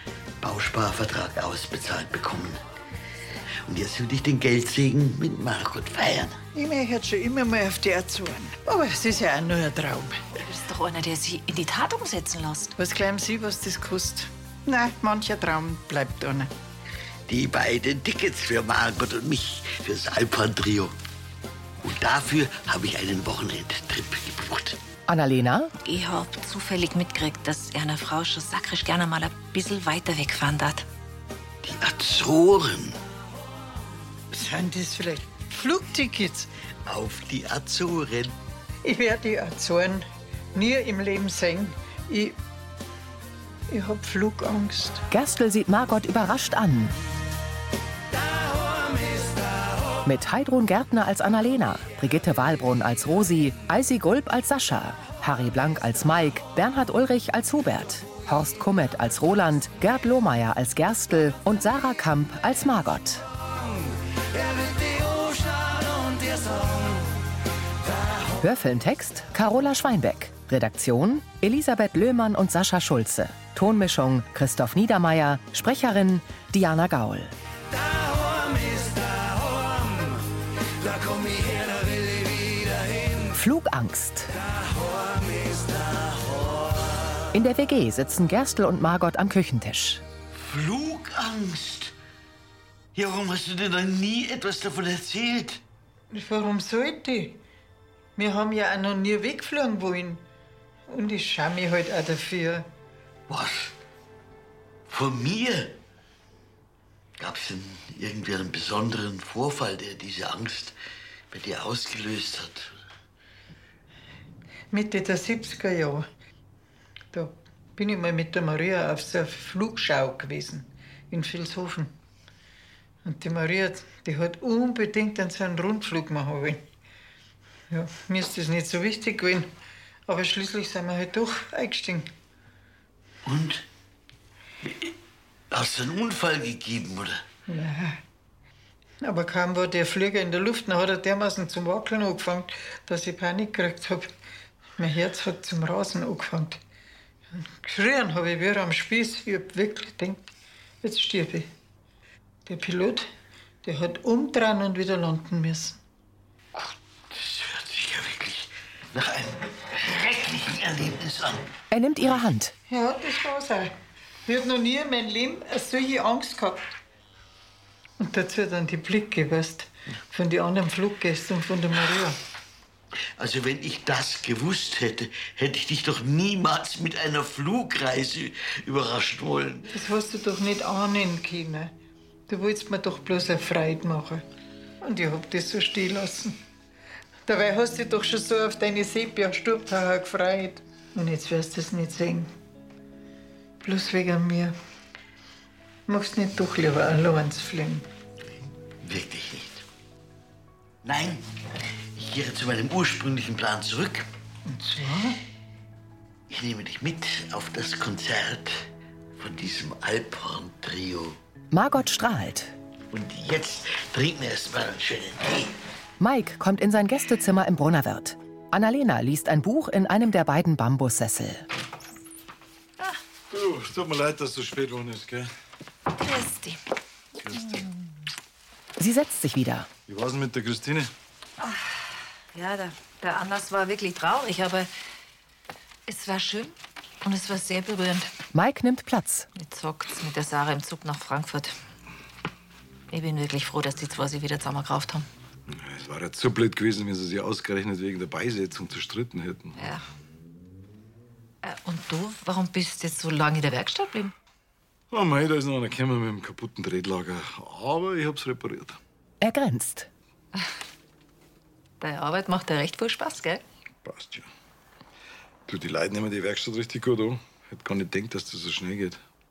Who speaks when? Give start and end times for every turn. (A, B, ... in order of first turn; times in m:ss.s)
0:00.4-0:02.6 A
0:03.6-0:06.4 A
0:06.5-0:10.2 B
0:10.4-0:12.7 C
0:12.8-0:16.5 B
0:17.3-0:20.9 A
0:21.8-0:24.8 A
0:25.1-0:25.7 D
0:25.8-0:30.8 C
0:31.6-0:33.0 A
0:34.3-0:36.5 B
0:36.8-0:38.3 A
0:38.8-0:42.4 B
0:43.7-0:45.0 B
0:45.1-0:46.9 D
0:50.0-1:03.2 D
1:08.4-1:17.3 D
1:23.3-1:24.3 D
1:27.3-1:30.0 D
1:30.3-1:31.9 A
1:32.9-1:35.6 A
1:36.1-1:37.4 B
1:38.2-1:40.2 B
1:40.9-1:42.7 B
1:43.3-1:43.7 A
1:44.9-1:45.8 A
1:47.2-1:50.8 A
1:51.3-1:52.8 A
1:54.7-1:56.1 B
1:57.1-2:01.9 B
2:03.0-2:06.6 B
2:07.7-2:09.5 B
2:10.1-2:12.1 B
2:13.2-2:13.6 A
2:15.5-2:17.2 A
2:17.5-2:18.0 B
2:19.0-2:24.1 B
2:24.8-2:26.6 B
2:27.3-2:30.2 B
2:30.8-2:31.5 B
2:32.4-2:33.1 B
2:33.6-2:35.8 B
2:36.5-2:41.5 A
2:41.7-2:42.5 D
2:42.7-2:43.7 B
2:44.2-2:46.7 B
2:48.0-2:52.2 B
2:53.2-2:59.7 A
2:59.7-3:01.7 B
3:02.3-3:04.2 B
3:04.8-3:06.4 B
3:07.2-3:12.3 B
3:13.6-3:14.6 B
3:15.9-3:17.9 B
3:18.8-3:19.6 A
3:20.8-3:21.3 A
3:22.0-3:24.1 A
3:24.4-3:25.2 B
3:26.3-3:28.7 A
3:29.2-3:31.2 A
3:31.5-3:32.5 D
3:32.9-3:35.5 A
3:36.0-3:41.4 D
3:43.3-3:45.3 E
3:45.9-3:46.6 C
3:47.2-3:47.6 E
3:48.8-3:49.7 D
3:49.9-3:50.9 E
3:52.3-3:54.7 C
3:55.9-3:58.1 C
3:58.3-3:59.3 D
3:59.3-4:01.5 C
4:02.9-4:05.1 C
4:05.5-4:09.5 E
4:09.6-4:09.8 C
4:11.4-4:14.1 C
4:14.9-4:18.8 E
4:19.2-4:19.9 D
4:21.8-4:23.4 C
4:23.8-4:24.3 E
4:25.5-4:29.0 E